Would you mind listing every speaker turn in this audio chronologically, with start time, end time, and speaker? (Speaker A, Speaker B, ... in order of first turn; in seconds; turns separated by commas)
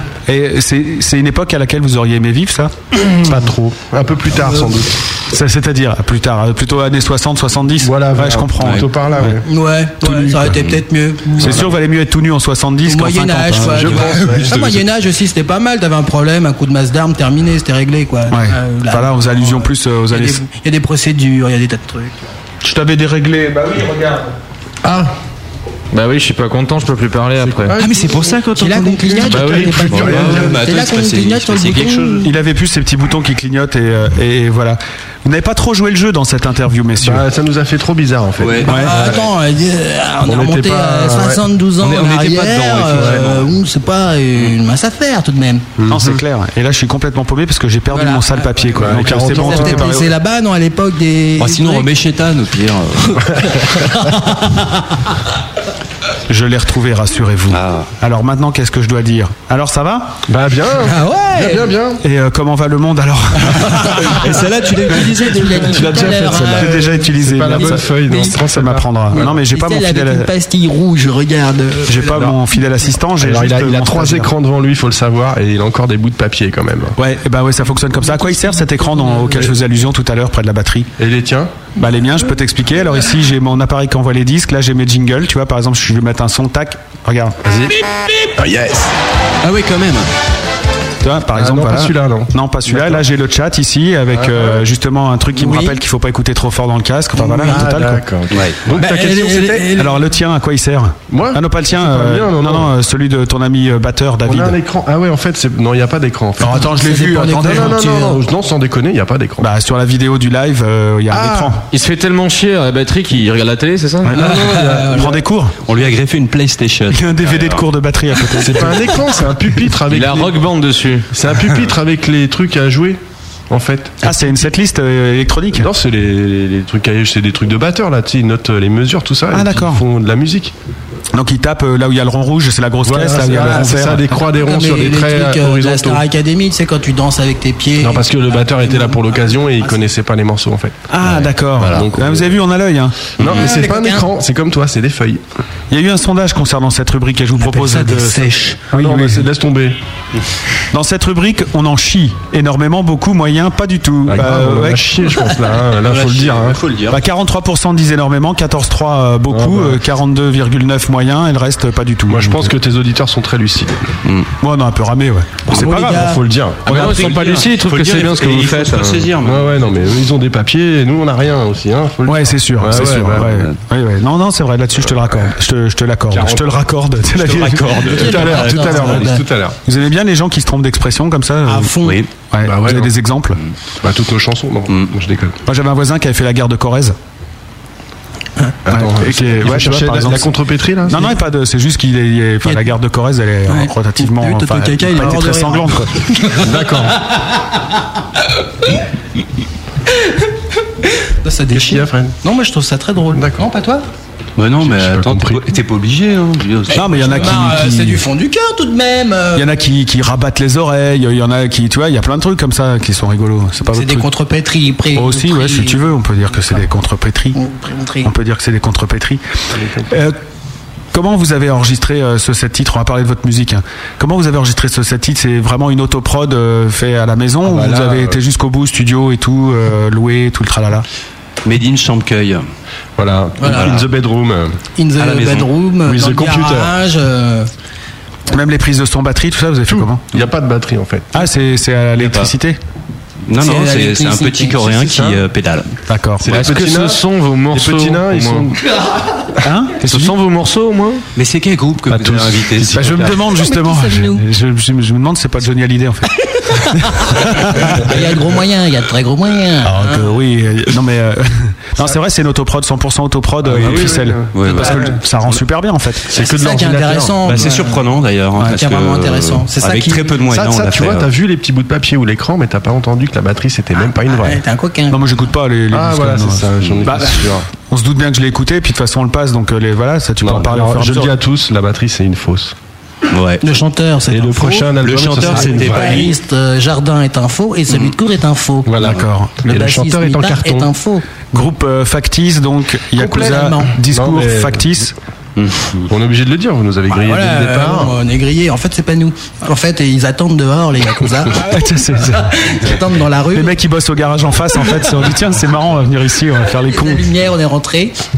Speaker A: 0.3-3.8, Speaker B: 3.9-5.0, Speaker C: 4.4-4.7, Speaker A: 5.3-9.4, Speaker B: 7.8-9.5, Speaker D: 8.6-8.8, Speaker C: 9.4-11.7, Speaker B: 10.0-10.5, Speaker D: 10.5-10.8, Speaker A: 11.4-13.9, Speaker B: 11.4-11.7, Speaker C: 12.9-22.2, Speaker D: 13.7-14.8, Speaker B: 13.8-14.6, Speaker A: 18.3-20.4, Speaker A: 22.6-24.3, Speaker B: 24.8-25.1, Speaker E: 25.9-27.8, Speaker B: 27.4-28.5, Speaker D: 27.8-32.3, Speaker C: 27.8-32.3, Speaker B: 29.2-30.6, Speaker E: 29.3-29.8, Speaker A: 32.2-37.2, Speaker B: 37.0-39.2, Speaker D: 38.4-39.2, Speaker C: 38.6-45.7, Speaker A: 38.7-38.9, Speaker B: 40.2-41.4, Speaker D: 41.8-43.5, Speaker B: 43.0-43.3, Speaker B: 45.8-46.2, Speaker A: 45.9-50.1, Speaker C: 47.9-51.9, Speaker B: 48.8-49.8, Speaker D: 51.4-53.2, Speaker C: 53.1-54.6, Speaker A: 56.3-60.2, Speaker D: 57.5-57.9, Speaker B: 60.3-62.0, Speaker C: 60.8-61.7, Speaker A: 62.0-64.4, Speaker C: 63.8-68.3, Speaker D: 64.2-66.1, Speaker B: 65.8-69.3, Speaker A: 66.1-70.3, Speaker C: 69.1-72.3, Speaker A: 71.9-74.3, Speaker B: 73.2-77.0, Speaker A: 77.0-80.9, Speaker B: 81.0-81.7, Speaker A: 81.8-87.4, Speaker B: 87.5-87.8, Speaker B: 88.3-88.9, Speaker D: 89.4-90.1, Speaker A: 91.0-98.0, Speaker B: 91.3-93.0, Speaker B: 94.1-94.6, Speaker C: 95.4-95.8, Speaker C: 97.2-97.6, Speaker B: 97.4-99.7, Speaker D: 98.3-98.8, Speaker C: 98.8-100.0, Speaker A: 99.7-104.6, Speaker B: 101.1-102.7, Speaker B: 104.3-106.6, Speaker A: 106.4-107.8, Speaker C: 106.5-108.2, Speaker B: 107.4-109.5, Speaker A: 109.4-111.6, Speaker B: 111.1-111.6, Speaker E: 111.7-114.1, Speaker A: 114.0-115.5, Speaker B: 114.1-115.1, Speaker C: 114.2-115.2, Speaker D: 115.7-117.6, Speaker A: 116.9-119.0, Speaker B: 118.4-120.4, Speaker E: 119.9-121.1, Speaker B: 121.1-124.0, Speaker A: 124.0-125.7, Speaker B: 125.5-130.5, Speaker A: 129.3-129.8, Speaker A: 131.1-134.1, Speaker B: 132.8-136.0, Speaker C: 134.3-139.9, Speaker B: 137.8-140.8, Speaker A: 140.9-143.0, Speaker D: 141.0-141.9, Speaker B: 141.7-142.3, Speaker B: 143.2-145.2, Speaker C: 143.3-144.1, Speaker A: 145.7-149.3, Speaker C: 147.4-148.7, Speaker B: 148.7-149.8, Speaker A: 150.7-155.1, Speaker B: 154.1-156.6, Speaker D: 155.8-157.0, Speaker A: 156.9-162.5, Speaker B: 159.3-159.8, Speaker B: 162.1-163.8, Speaker A: 164.4-166.2, Speaker C: 165.5-166.2, Speaker B: 165.6-173.3, Speaker E: 166.7-168.9, Speaker D: 166.7-169.6, Speaker A: 172.1-178.1, Speaker D: 172.7-173.6, Speaker B: 176.1-176.6, Speaker D: 177.2-179.1, Speaker C: 177.9-179.2, Speaker B: 178.0-179.6, Speaker A: 179.7-183.4, Speaker C: 181.5-182.0, Speaker D: 181.8-182.1, Speaker B: 182.4-182.9, Speaker B: 183.8-185.4, Speaker D: 184.7-184.9, Speaker A: 185.5-187.0, Speaker B: 188.7-191.1, Speaker A: 188.7-190.3, Speaker A: 190.9-195.9, Speaker C: 193.5-196.5, Speaker B: 196.3-197.0, Speaker C: 201.0-203.8, Speaker B: 201.5-202.2, Speaker B: 203.1-203.5, Speaker D: 204.4-207.5, Speaker B: 204.6-205.5, Speaker A: 206.7-208.1, Speaker C: 206.7-209.5, Speaker A: 209.3-214.1, Speaker C: 213.7-215.9, Speaker A: 214.9-217.4, Speaker C: 217.3-218.1, Speaker A: 218.0-219.2, Speaker B: 219.5-219.9, Speaker A: 219.9-220.2, Speaker A: 220.9-230.9, Speaker B: 227.5-228.2, Speaker D: 231.4-232.4, Speaker B: 233.0-234.6, Speaker C: 233.4-233.8, Speaker D: 233.4-233.9, Speaker C: 234.8-237.5, Speaker D: 235.0-235.5, Speaker B: 235.8-236.8, Speaker A: 238.3-240.2, Speaker B: 239.7-241.1, Speaker A: 241.1-242.6, Speaker D: 242.0-242.3, Speaker D: 243.3-245.8, Speaker C: 243.4-244.6, Speaker B: 244.6-245.2, Speaker A: 245.9-246.4, Speaker B: 246.2-248.6, Speaker E: 246.3-248.5, Speaker A: 249.4-250.2, Speaker E: 249.8-251.0, Speaker D: 251.2-253.2, Speaker B: 251.9-253.1, Speaker A: 252.7-258.0, Speaker C: 253.4-254.2, Speaker C: 256.5-260.1, Speaker A: 259.6-266.1, Speaker B: 263.5-265.0, Speaker D: 263.6-264.9, Speaker B: 266.1-267.5, Speaker C: 266.1-267.9, Speaker D: 267.2-271.1, Speaker C: 268.4-270.1, Speaker B: 270.3-274.4, Speaker C: 274.1-275.0, Speaker A: 274.9-281.1, Speaker B: 275.7-277.5, Speaker D: 276.6-277.1, Speaker B: 280.2-282.6, Speaker D: 283.1-283.5, Speaker C: 283.4-288.7, Speaker B: 284.1-286.1, Speaker D: 284.8-286.1, Speaker B: 288.7-290.7, Speaker A: 288.8-289.4, Speaker C: 289.5-291.0, Speaker A: 291.3-294.9, Speaker C: 293.0-293.8, Speaker B: 293.9-294.6, Speaker D: 295.4-295.9, Speaker B: 295.9-298.0, Speaker C: 296.9-303.6, Speaker A: 301.4-302.5, Speaker A: 303.3-307.2, Speaker C: 306.7-307.9